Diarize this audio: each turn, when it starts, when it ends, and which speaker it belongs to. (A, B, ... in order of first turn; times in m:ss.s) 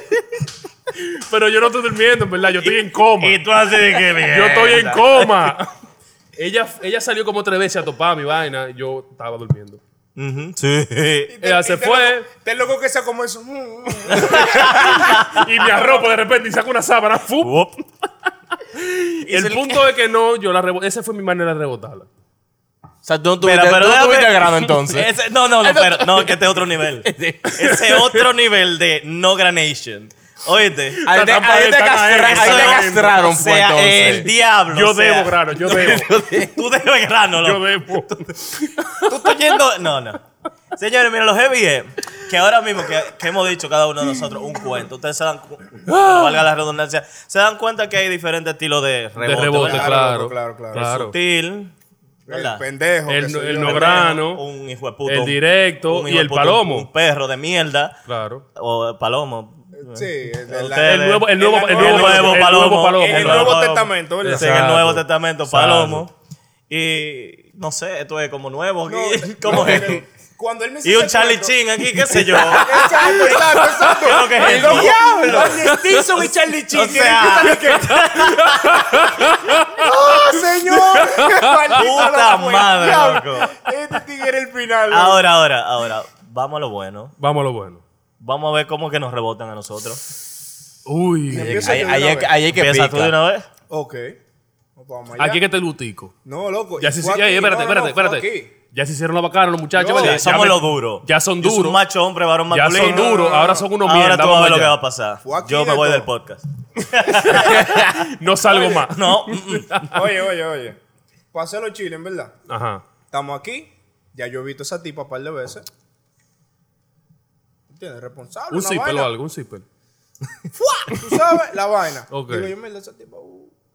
0:01.0-0:03.4 A
0:02.6-0:05.3 B
0:04.2-0:05.7 A
0:06.4-0:09.8 A
0:10.2-0:11.3 B
0:11.3-0:15.0 C
0:11.4-0:12.3 A
0:14.2-0:15.4 B
0:14.3-0:17.7 A
0:15.6-0:16.0 C
0:17.4-0:17.8 B
0:18.7-0:22.1 A
0:19.3-0:19.6 B
0:23.0-0:26.5 D
0:23.4-0:31.1 B
0:27.0-0:27.8 D
0:31.0-0:33.2 A
0:31.0-0:34.3 D
0:32.2-0:38.2 B
0:34.1-0:36.1 A
0:35.6-0:36.6 D
0:37.4-0:39.2 A
0:39.0-0:40.2 B
0:40.8-0:50.0 B
0:45.9-0:46.4 A
0:49.2-0:51.1 A
0:49.6-0:50.8 C
0:50.7-0:51.7 B
0:52.3-0:54.2 C
0:52.3-0:52.6 B
0:53.1-0:54.4 A
0:53.6-0:58.0 B
0:55.1-0:56.9 A
0:58.1-0:58.4 A
0:58.6-1:06.1 B
0:59.8-1:04.5 C
1:00.8-1:03.6 A
1:04.2-1:06.0 A
1:06.7-1:10.0 B
1:08.9-1:11.6 C
1:10.8-1:15.6 B
1:12.1-1:18.1 C
1:12.4-1:13.4 D
1:14.4-1:15.8 D
1:16.7-1:19.2 B
1:17.5-1:21.9 A
1:19.7-1:25.3 C
1:21.7-1:23.5 B
1:24.9-1:27.1 B
1:27.2-1:27.8 A
1:28.2-1:30.0 B
1:30.9-1:31.9 A
1:31.3-1:32.4 C
1:31.3-1:33.2 D
1:32.5-1:33.5 B
1:33.7-1:34.2 C
1:34.8-1:35.4 C
1:35.2-1:36.1 A
1:36.2-1:38.5 C
1:36.8-1:41.8 A
1:39.7-1:40.2 C
1:40.0-1:43.2 B
1:42.5-1:44.8 A
1:42.7-1:43.6 C
1:43.8-1:47.9 B
1:45.2-1:46.1 C
1:47.0-1:50.1 A
1:47.3-1:47.6 C
1:48.5-1:48.8 C
1:48.9-1:49.9 B
1:49.9-1:50.8 C
1:51.3-1:52.3 C
1:52.5-1:52.8 A
1:53.1-1:55.7 C
1:57.7-1:59.1 C
1:58.5-1:59.6 A
2:00.6-2:03.5 C
2:02.1-2:02.5 A